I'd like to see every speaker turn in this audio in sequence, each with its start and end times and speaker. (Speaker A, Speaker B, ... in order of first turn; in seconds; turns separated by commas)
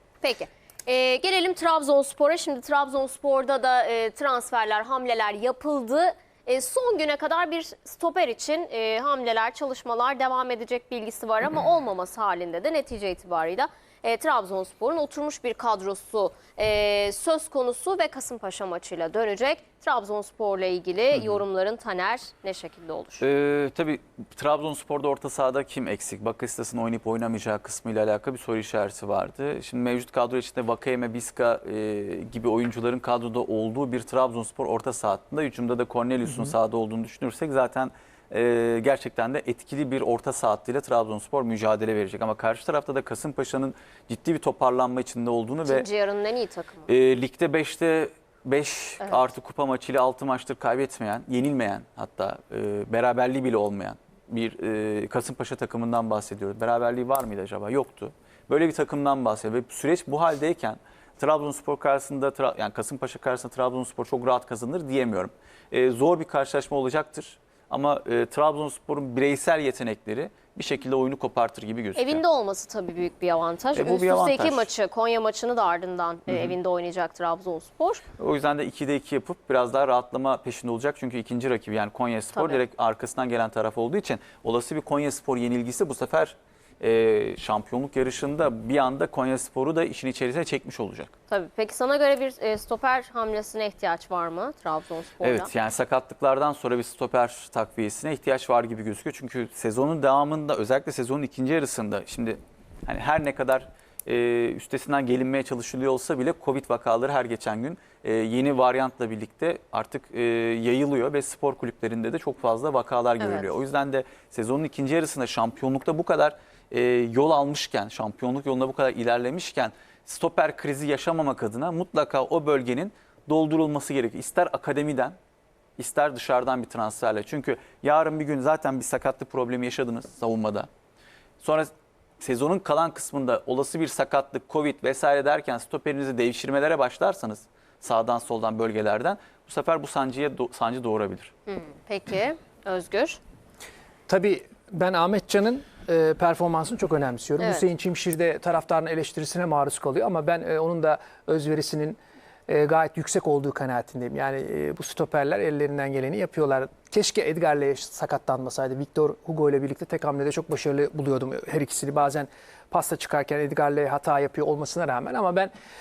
Speaker A: 0.2-23.2, Speaker B: 21.1-21.4, Speaker B: 23.2-45.9, Speaker A: 45.6-46.9, Speaker B: 46.9-72.2, Speaker A: 72.0-78.0, Speaker B: 73.7-74.7, Speaker B: 76.3-76.5, Speaker B: 78.2-91.1, Speaker A: 82.3-82.6, Speaker A: 91.3-95.5, Speaker B: 95.2-125.2, Speaker A: 113.2-113.5, Speaker B: 125.8-130.7, Speaker B: 131.4-141.3, Speaker A: 141.5-143.2, Speaker C: 144.1-165.5, Speaker A: 147.4-147.6